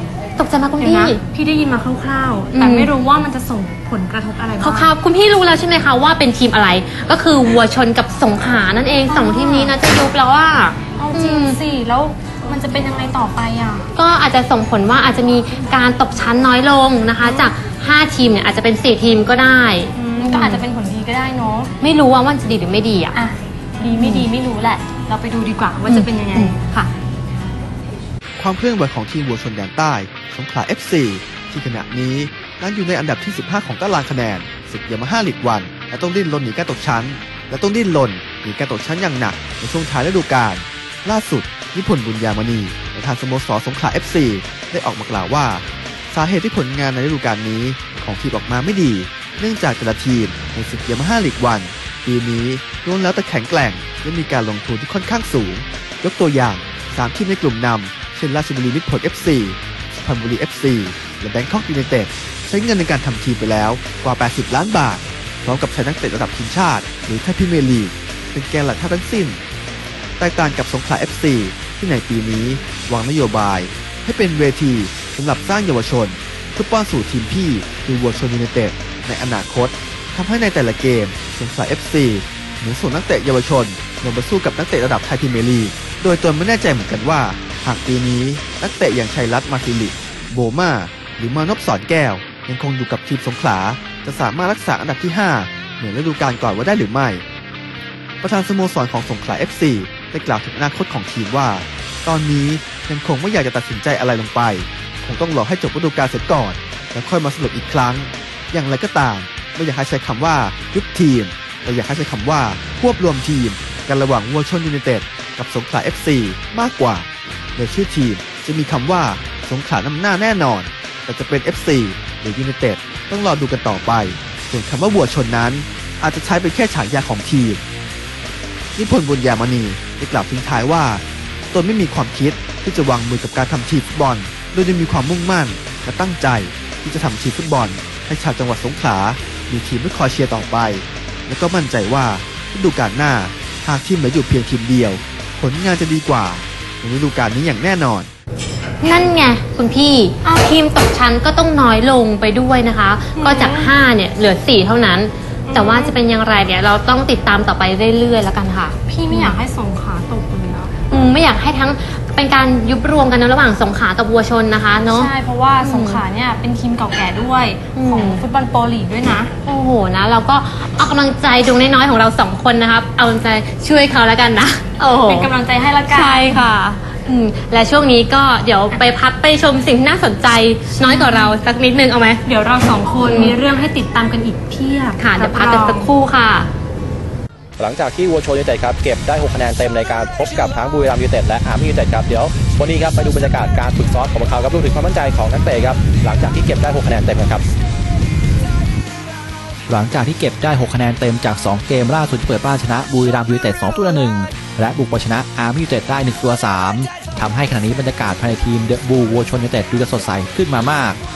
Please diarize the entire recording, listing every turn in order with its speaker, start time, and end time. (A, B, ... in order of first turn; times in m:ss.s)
0:00.4-0:01.2 A
0:00.8-0:04.9 B
0:02.5-0:02.9 A
0:04.6-0:11.6 A
0:09.1-0:09.7 B
0:11.0-0:13.9 B
0:14.0-0:20.6 A
0:17.2-0:17.5 B
0:20.0-0:21.7 B
0:21.8-0:23.2 A
0:23.1-0:26.8 B
0:23.8-0:24.3 A
0:25.8-0:26.9 A
0:28.4-1:09.4 C
1:10.2-1:37.2 C
1:38.2-2:07.6 C
2:08.7-2:28.1 C
2:28.8-2:39.4 A
2:33.2-2:33.7 B
2:35.5-2:36.0 B
2:38.9-2:40.7 B
2:40.9-2:46.0 A
2:44.9-2:49.3 B
2:47.7-2:48.2 A
2:49.4-2:55.3 A
2:54.8-2:56.5 B
2:55.9-3:02.2 A
3:00.8-3:01.4 B
3:02.2-3:05.9 B
3:03.0-3:03.4 A
3:05.0-3:06.5 A
3:07.6-3:17.4 D
3:19.7-3:31.0 E